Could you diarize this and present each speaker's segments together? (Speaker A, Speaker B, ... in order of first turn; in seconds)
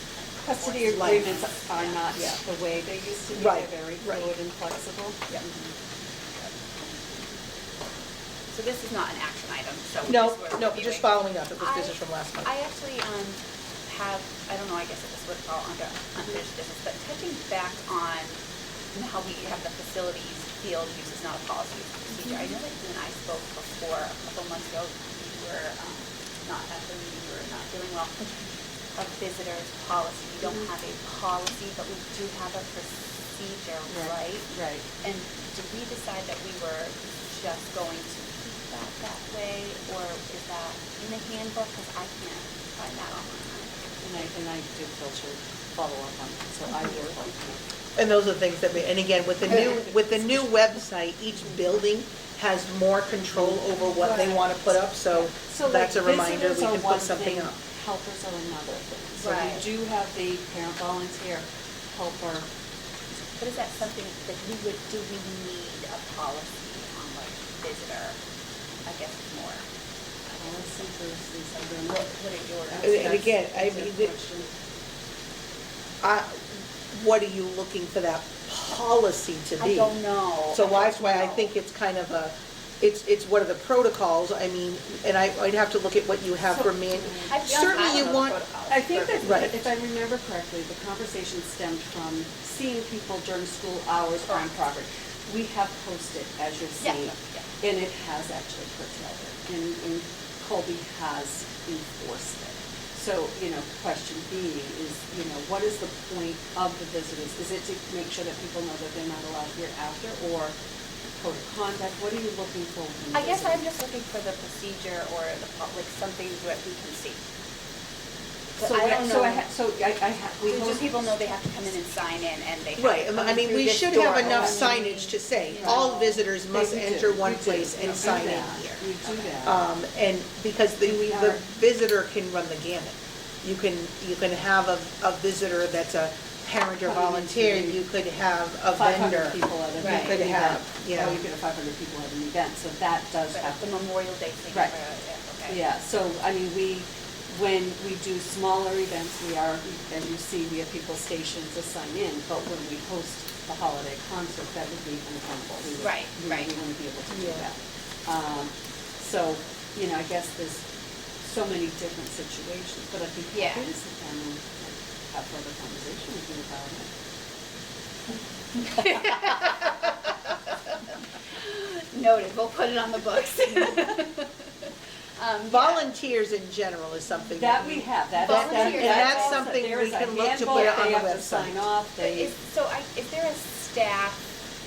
Speaker A: 0.4-5.7, 30.4-30.7, 33.9-34.9, 44.0-47.6, 49.5-50.5, 53.3-62.5, 70.4-74.5, 86.4-110.5, 111.1-113.6, 118.6-121.1, 124.2-124.8, 125.6-129.6, 130.8-131.4, 136.8-137.8, 138.7-143.6, 145.5-160.7, 161.2-166.9, 177.4-182.3
Speaker B: 0.5-2.1, 8.5-18.4, 18.9-44.3, 59.2-59.7, 63.4-68.2, 68.8-69.7, 70.2-70.9, 71.5-73.2, 79.6-81.5, 87.3-89.5, 94.2-94.7, 96.8-97.5, 113.1-117.2, 118.6-119.5, 120.5-126.0, 139.8-140.2, 143.3-145.6, 155.8-156.5, 157.1-157.5, 163.3-163.7, 168.6-170.8, 171.3-175.9, 178.2-179.6, 180.4-180.9, 182.0-184.3
Speaker C: 0.9-1.4, 3.3-4.3, 10.1-12.5, 48.0-57.6, 72.8-74.1, 76.0-80.0, 80.5-88.4, 89.2-89.5, 122.8-128.8, 129.4-141.2, 175.5-181.6